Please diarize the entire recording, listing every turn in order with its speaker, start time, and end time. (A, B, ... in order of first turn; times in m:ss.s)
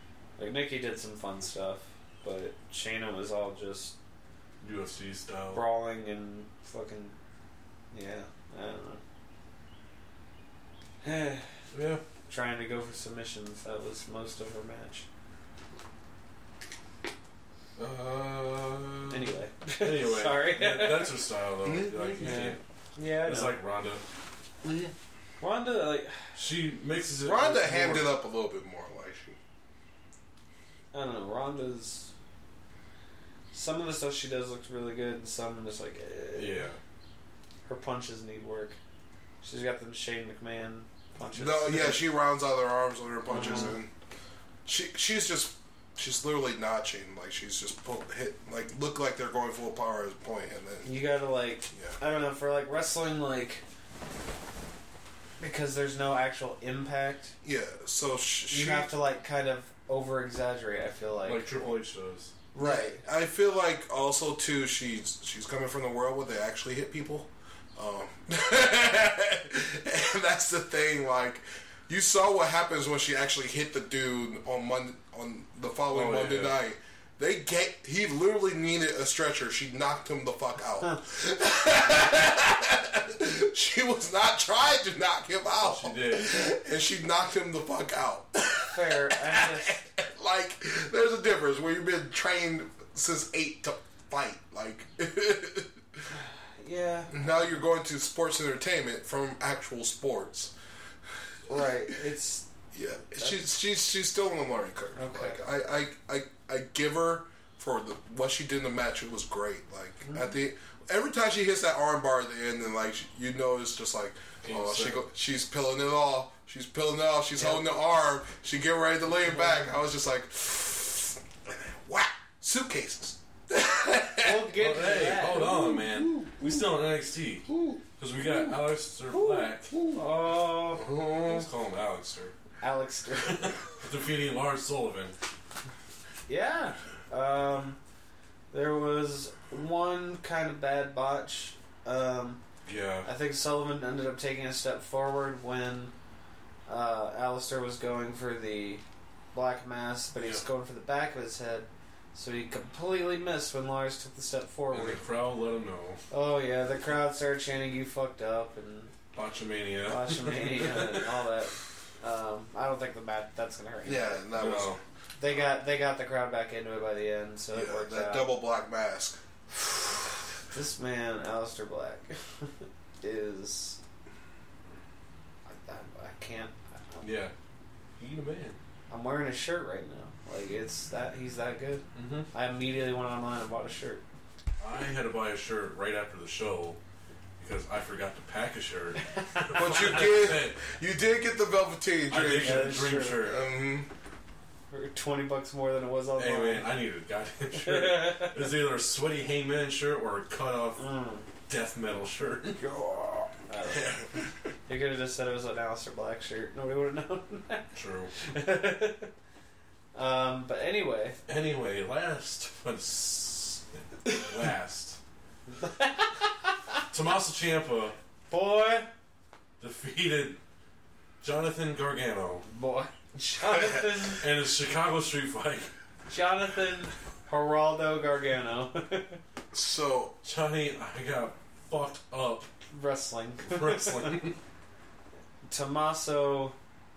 0:00.4-0:03.9 A
0:04.6-0:05.6 B
0:05.5-0:07.2 A
0:07.9-0:09.0 A
0:11.0-0:11.5 A
0:11.7-0:12.0 B
0:12.3-0:15.0 A
0:17.8-0:22.6 B
0:19.1-0:21.2 A
0:21.6-0:22.5 C
0:22.2-0:23.6 A
0:23.2-0:24.0 B
0:24.6-0:24.9 C
0:25.4-0:26.4 A
0:26.4-0:28.1 B
0:27.2-0:29.4 C
0:30.9-0:32.1 A
0:33.5-0:36.7 A
0:36.3-0:36.8 B
0:37.6-0:38.8 A
0:39.4-0:42.0 A
0:41.3-0:43.9 C
0:43.3-0:43.8 A
0:44.6-0:51.0 C
0:50.8-0:53.6 A
0:51.7-0:52.0 C
0:55.4-0:57.3 A
0:57.4-0:58.9 C
0:58.5-1:01.7 A
1:01.2-1:02.3 B
1:02.5-1:03.0 A
1:02.6-1:36.0 C
1:15.9-1:16.6 B
1:25.6-1:26.5 B
1:28.7-1:29.8 A
1:36.1-1:37.4 A
1:37.1-1:40.5 C
1:41.5-1:42.4 A
1:41.5-1:41.9 C
1:42.7-2:04.6 C
1:44.9-1:45.4 A
1:50.0-1:50.3 A
1:54.4-1:55.0 B
1:57.3-1:57.8 A
2:04.2-2:05.5 A
2:04.6-2:09.8 B
2:05.2-2:06.5 C
2:07.5-2:07.8 C
2:09.1-2:10.9 A
2:09.7-2:10.0 C
2:10.7-2:11.5 C
2:10.8-2:12.3 B
2:12.6-2:13.6 A
2:13.2-2:15.2 B
2:16.3-2:17.8 A
2:18.5-2:22.4 A
2:22.6-2:23.1 B
2:23.0-2:25.9 A
2:26.7-2:28.8 A
2:29.3-2:35.0 A
2:30.2-2:30.4 B
2:34.7-2:36.0 B
2:36.1-2:38.9 A
2:39.1-2:41.0 B
2:39.8-2:44.4 A
2:43.8-2:44.8 C
2:44.3-2:44.8 B
2:45.2-2:48.3 A
2:47.5-2:49.2 C
2:50.5-2:53.8 A
2:55.4-2:57.1 A
2:57.0-2:57.3 B
2:58.0-2:58.6 B
2:58.9-3:04.0 A
3:01.9-3:02.3 B
3:04.6-3:06.8 B
3:07.4-3:10.6 B
3:09.1-3:10.0 A
3:09.5-3:13.9 C
3:12.1-3:13.5 B
3:12.4-3:13.3 A
3:14.7-3:16.8 A
3:16.2-3:20.8 B
3:17.5-3:18.4 A
3:20.8-3:21.3 A
3:21.5-3:22.6 B
3:22.6-3:24.1 C
3:23.4-3:24.0 A
3:24.7-3:29.1 A
3:27.7-3:28.1 B
3:29.9-3:31.2 A
3:31.3-3:35.0 B
3:35.5-3:36.8 A
3:36.9-3:38.0 B
3:38.3-3:38.9 A
3:39.6-3:40.4 B
3:41.2-3:42.4 B
3:42.4-3:44.2 A
3:44.1-3:45.7 B
3:46.1-3:49.2 A
3:49.5-3:50.1 C
3:50.2-3:52.5 B
3:52.7-3:54.2 A
3:53.4-3:54.4 B
3:55.4-3:56.6 A